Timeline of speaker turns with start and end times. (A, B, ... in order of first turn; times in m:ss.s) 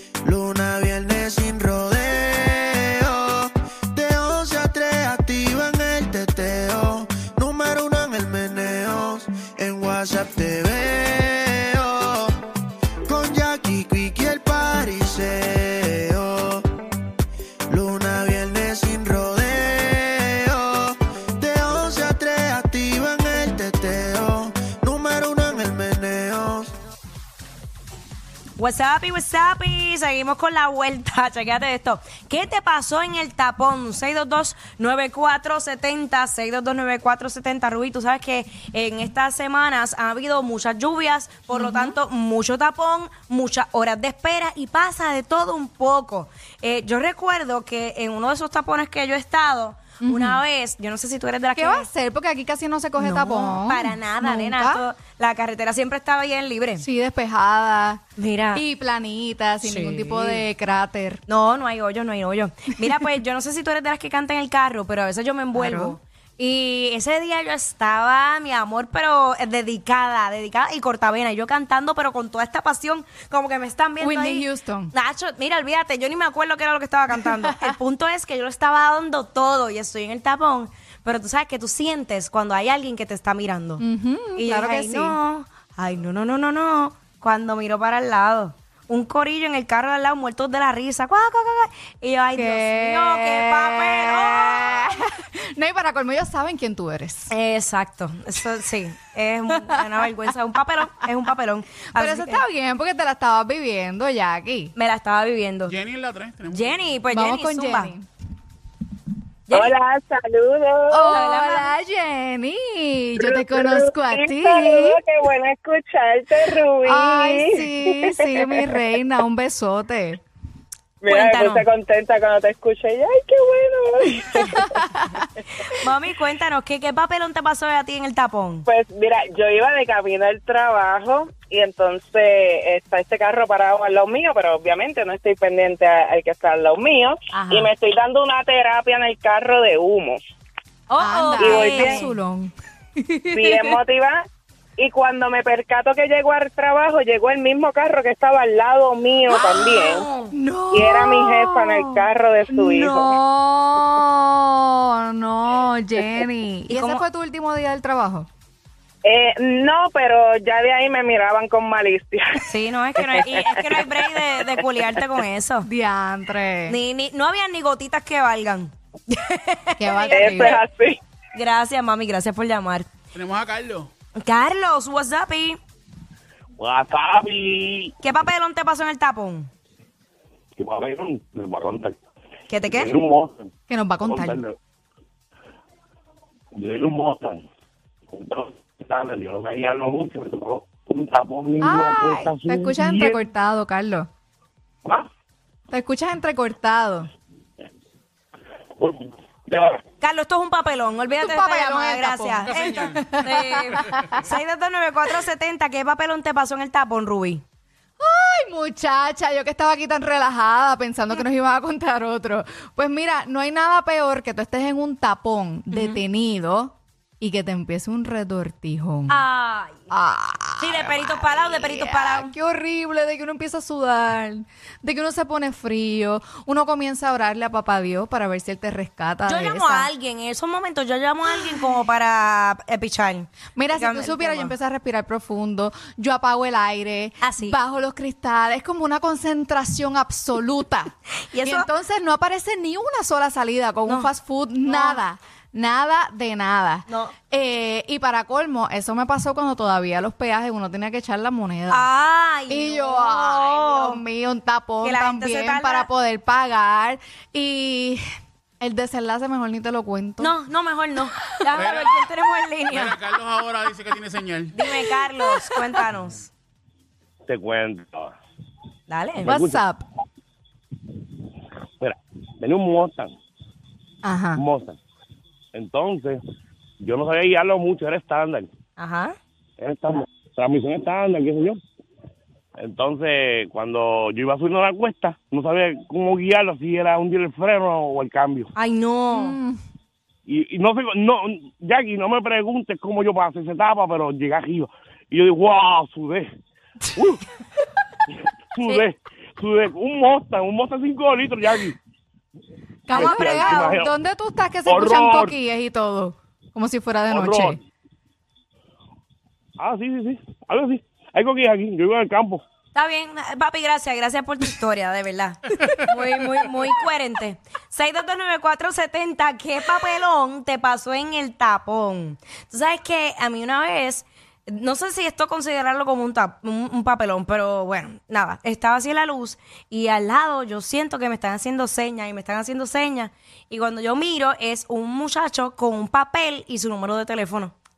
0:00.2-0:12.3 A
0:13.1-0:16.6 A
0:17.7-0:26.7 A
0:28.6-0:51.9 B
0:41.5-0:42.0 C
0:50.0-0:50.4 C
0:51.6-0:54.8 C
0:53.0-0:56.9 B
0:56.8-1:01.2 C
0:58.2-0:58.6 B
0:59.6-1:00.4 B
1:01.3-1:23.8 B
1:05.6-1:06.0 C
1:14.0-1:14.9 C
1:17.2-1:17.7 C
1:23.8-1:25.2 C
1:24.4-1:35.0 B
1:32.4-1:37.3 C
1:37.3-1:42.4 B
1:39.5-1:40.1 C
1:42.0-1:44.7 C
1:44.8-1:45.8 B
1:45.7-1:46.7 D
1:46.5-1:47.9 B
1:47.1-1:48.1 C
1:49.5-1:49.8 B
1:49.5-1:51.2 E
1:50.9-1:55.0 C
1:51.1-1:51.7 B
1:53.2-1:58.7 E
1:56.5-2:00.2 C
2:01.0-2:04.6 E
2:01.1-2:01.7 B
2:04.5-2:05.2 C
2:05.7-2:08.6 B
2:08.7-2:20.2 E
2:17.3-2:17.7 B
2:20.9-2:22.2 B
2:21.0-2:23.8 C
2:21.4-2:22.0 E
2:23.3-2:24.2 E
2:24.8-2:30.0 E
2:29.3-2:30.3 B
2:30.3-2:38.3 C
2:30.7-2:33.1 E
2:36.7-2:37.0 B
2:39.1-2:42.2 E
2:42.5-2:45.7 B
2:45.6-2:46.8 C
2:46.7-2:50.6 B
2:49.8-2:50.6 C
2:50.1-2:51.0 E
2:51.3-2:52.9 B
2:53.2-2:53.9 D
2:54.2-2:55.6 B
2:56.6-2:57.9 F
2:58.0-2:59.5 B
3:00.6-3:02.0 F
3:02.5-3:03.0 B
3:02.7-3:03.5 F
3:03.7-3:04.4 C
3:04.0-3:04.6 F
3:06.5-3:07.4 F
3:08.1-3:13.2 F
3:11.6-3:14.1 C
3:15.7-3:17.1 C
3:18.8-3:19.8 F
3:20.0-3:27.4 B
3:21.2-3:24.2 C
3:22.5-3:23.1 D
3:28.0-3:39.2 C
3:35.7-3:36.0 B
3:39.1-3:39.9 B
3:39.9-3:49.9 C
3:40.6-3:42.3 B
3:49.3-3:54.6 B
3:53.6-4:11.8 C
3:57.2-3:57.6 B
4:01.3-4:01.7 B
4:04.6-4:05.0 B
4:06.9-4:07.2 B
4:11.7-4:14.0 B
4:12.5-4:18.0 C
4:14.8-4:15.9 B
4:18.6-4:20.3 C
4:20.2-4:23.0 B
4:21.5-4:22.1 D
4:22.7-4:24.7 D
4:24.5-4:26.3 B
4:27.3-4:28.1 F
4:28.9-4:29.3 B
4:29.2-4:29.8 C
4:29.3-4:29.6 F
4:31.8-4:33.2 F
4:34.0-4:34.4 C
4:34.4-4:34.8 F
4:35.5-4:36.2 F
4:36.8-4:38.5 F
4:38.8-4:39.2 B
4:39.6-4:41.6 F
4:42.6-4:48.5 F
4:48.6-4:49.4 B
4:49.1-4:49.6 C
4:50.3-4:56.3 F
4:57.0-4:57.2 F
4:58.1-5:01.8 F
5:02.9-5:07.6 C
5:02.9-5:03.8 B
5:02.9-5:03.9 F
5:04.7-5:05.4 F
5:07.1-5:07.6 F
5:09.6-5:12.4 F
5:12.8-5:37.5 B